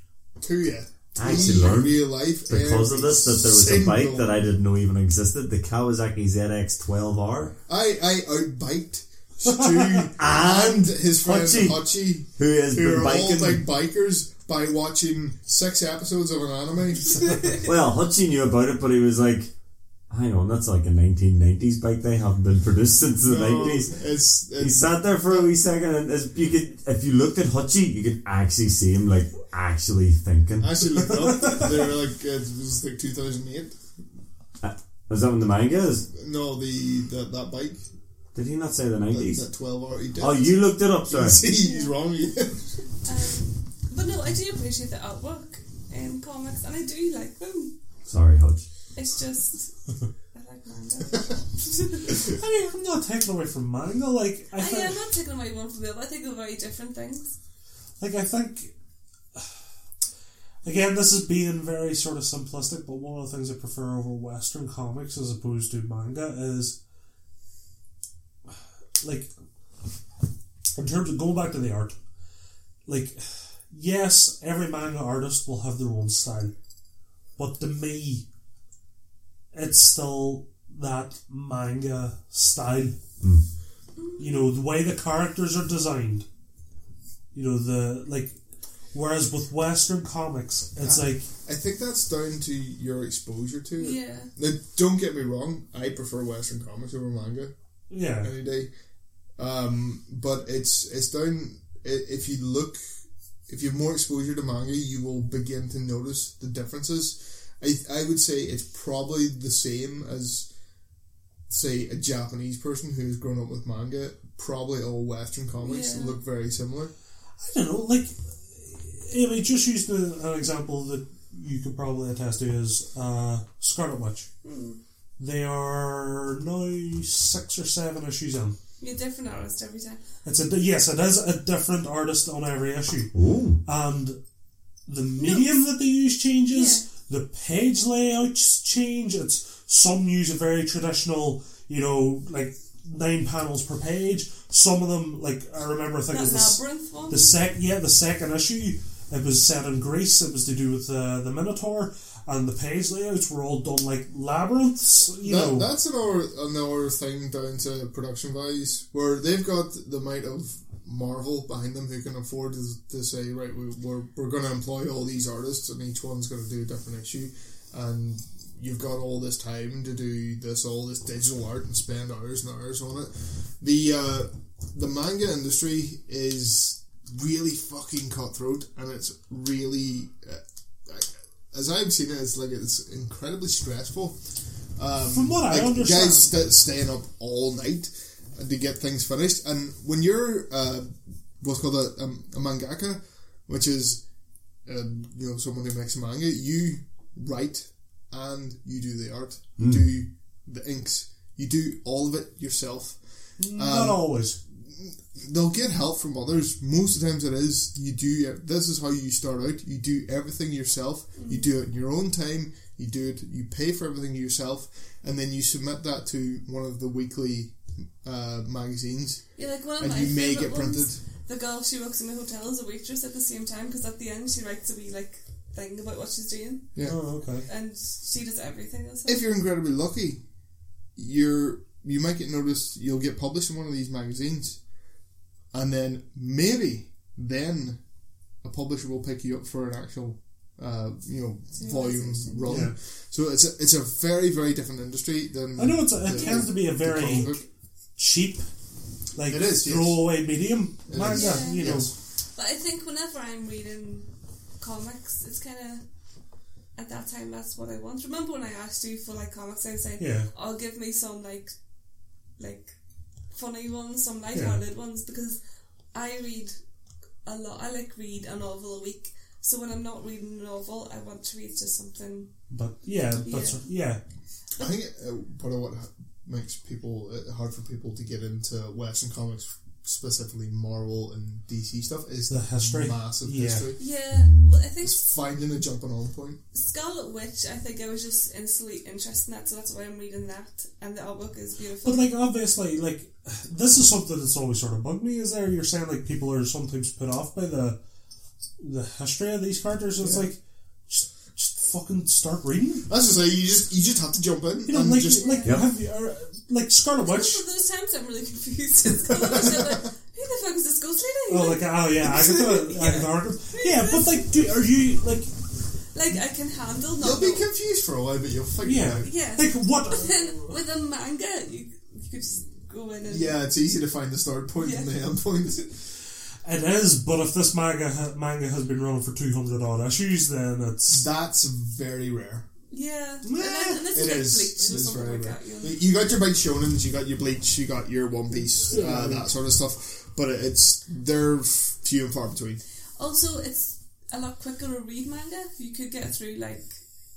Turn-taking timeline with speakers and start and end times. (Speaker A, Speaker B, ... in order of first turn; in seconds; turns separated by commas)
Speaker A: 0.4-4.4, Speaker B: 1.1-7.5, Speaker C: 1.2-1.6, Speaker A: 7.7-17.6, Speaker D: 9.4-9.8, Speaker B: 10.2-11.8, Speaker B: 12.3-13.6, Speaker B: 17.6-19.5, Speaker B: 20.1-24.0, Speaker A: 23.2-25.5, Speaker B: 24.6-30.8, Speaker A: 30.6-33.8, Speaker D: 31.1-31.7, Speaker B: 34.6-36.1, Speaker A: 36.1-37.8, Speaker B: 38.3-39.4, Speaker A: 39.1-42.7, Speaker B: 40.2-41.4, Speaker C: 41.4-42.0, Speaker C: 43.0-47.7, Speaker B: 48.0-48.6, Speaker C: 48.9-49.7, Speaker C: 50.3-52.2, Speaker D: 52.2-55.0, Speaker C: 54.5-57.3, Speaker D: 58.0-58.7, Speaker D: 60.6-66.8, Speaker D: 69.0-69.3, Speaker D: 70.8-72.0, Speaker D: 72.9-76.5, Speaker D: 77.4-78.2, Speaker D: 79.5-83.0, Speaker C: 84.0-84.5, Speaker D: 84.2-86.2, Speaker D: 87.3-88.4, Speaker D: 88.9-91.2, Speaker A: 90.8-97.5, Speaker C: 93.8-94.3, Speaker D: 97.9-98.3, Speaker A: 98.2-98.7, Speaker A: 99.4-102.8, Speaker A: 103.5-110.5, Speaker A: 111.5-116.9, Speaker C: 115.6-116.2, Speaker D: 117.4-124.3, Speaker C: 124.4-124.8, Speaker D: 125.2-128.6, Speaker C: 128.8-130.0, Speaker D: 130.2-133.1, Speaker B: 133.1-133.6, Speaker D: 133.6-134.2, Speaker D: 134.9-155.7, Speaker C: 135.2-135.5, Speaker C: 136.5-136.8, Speaker C: 146.1-147.3, Speaker A: 155.2-184.2, Speaker A: 184.8-194.0, Speaker D: 185.0-186.3, Speaker A: 194.7-203.0, Speaker B: 199.6-199.8, Speaker D: 203.4-204.4, Speaker A: 203.5-204.0, Speaker A: 204.6-219.2, Speaker C: 211.2-211.5, Speaker C: 219.4-226.7, Speaker A: 219.8-221.0, Speaker D: 226.8-227.5, Speaker C: 227.4-229.2, Speaker A: 229.1-230.2, Speaker A: 230.9-234.6, Speaker A: 235.5-237.8, Speaker A: 238.4-247.4, Speaker C: 241.6-242.7, Speaker D: 242.5-242.7, Speaker D: 245.6-247.3, Speaker C: 246.1-247.4, Speaker D: 248.0-248.5, Speaker D: 249.1-251.9, Speaker A: 249.3-250.0, Speaker A: 250.9-251.9, Speaker C: 251.0-251.7, Speaker C: 252.3-254.1, Speaker C: 254.6-255.8, Speaker C: 256.7-261.5, Speaker D: 260.0-260.3, Speaker C: 262.4-262.7, Speaker C: 263.3-265.4, Speaker D: 264.3-264.6, Speaker C: 265.9-266.5, Speaker C: 267.2-272.3, Speaker D: 272.5-274.0, Speaker C: 273.2-273.6, Speaker A: 274.6-283.8, Speaker D: 282.3-283.7, Speaker C: 283.8-285.0, Speaker B: 284.1-284.5, Speaker A: 284.8-286.4, Speaker C: 286.5-292.1, Speaker D: 291.8-297.8, Speaker D: 298.6-302.9, Speaker A: 300.0-300.3, Speaker A: 302.9-305.4, Speaker D: 304.6-307.4, Speaker C: 305.1-305.6, Speaker C: 306.9-314.4, Speaker A: 309.1-309.9, Speaker D: 311.3-315.3, Speaker C: 315.9-317.4, Speaker A: 317.0-319.1, Speaker D: 318.6-320.2, Speaker C: 319.0-323.4, Speaker A: 323.1-325.7, Speaker C: 324.6-324.9, Speaker D: 326.4-331.1, Speaker A: 330.9-332.4, Speaker C: 332.7-335.8, Speaker D: 333.2-333.9, Speaker A: 333.9-342.6, Speaker D: 338.6-339.3, Speaker C: 343.0-346.8